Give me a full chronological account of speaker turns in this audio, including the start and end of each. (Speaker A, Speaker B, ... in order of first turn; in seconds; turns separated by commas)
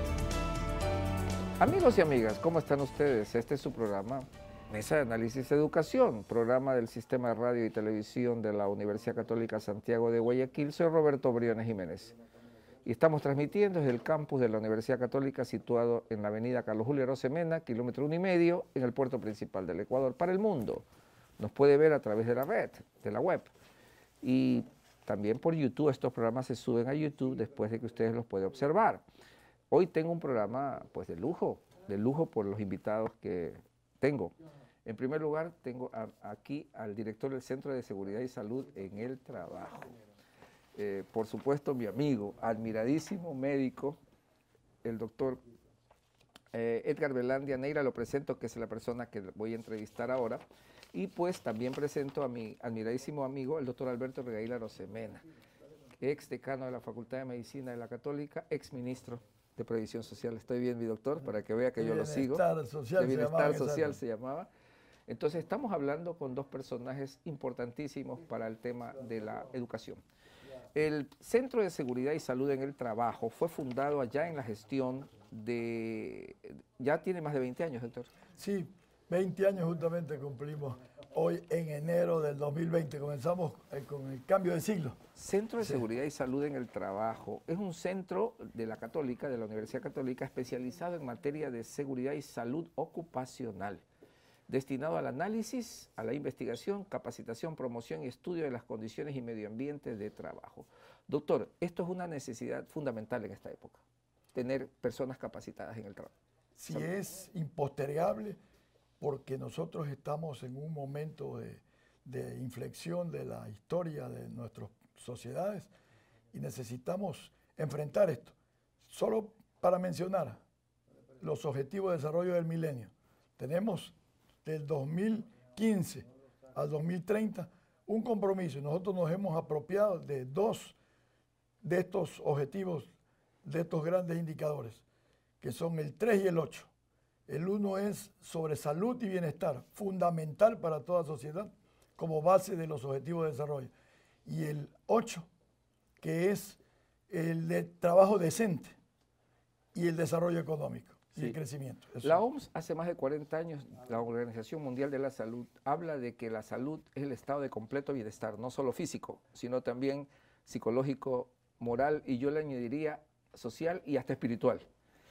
Speaker A: 1.6-12.2, Speaker A: 12.8-20.8, Speaker A: 21.4-23.5, Speaker A: 24.2-29.0, Speaker A: 29.7-34.3, Speaker A: 34.9-39.9, Speaker A: 40.8-44.0, Speaker A: 44.8-45.4, Speaker A: 46.5-55.2, Speaker A: 56.0-62.4, Speaker B: 61.8-64.0, Speaker A: 63.0-64.5, Speaker A: 65.1-70.0, Speaker A: 70.7-78.1, Speaker B: 78.4-85.0, Speaker A: 85.1-93.8, Speaker A: 94.5-103.8, Speaker A: 104.3-106.1, Speaker B: 106.5-108.4, Speaker B: 109.0-115.7, Speaker B: 116.3-118.3, Speaker B: 118.8-120.4, Speaker B: 121.2-130.8, Speaker B: 131.6-132.9, Speaker B: 133.4-134.8, Speaker B: 135.4-136.7, Speaker B: 137.3-143.7, Speaker B: 144.2-145.3, Speaker B: 146.0-148.8, Speaker B: 149.7-152.2, Speaker A: 152.0-164.7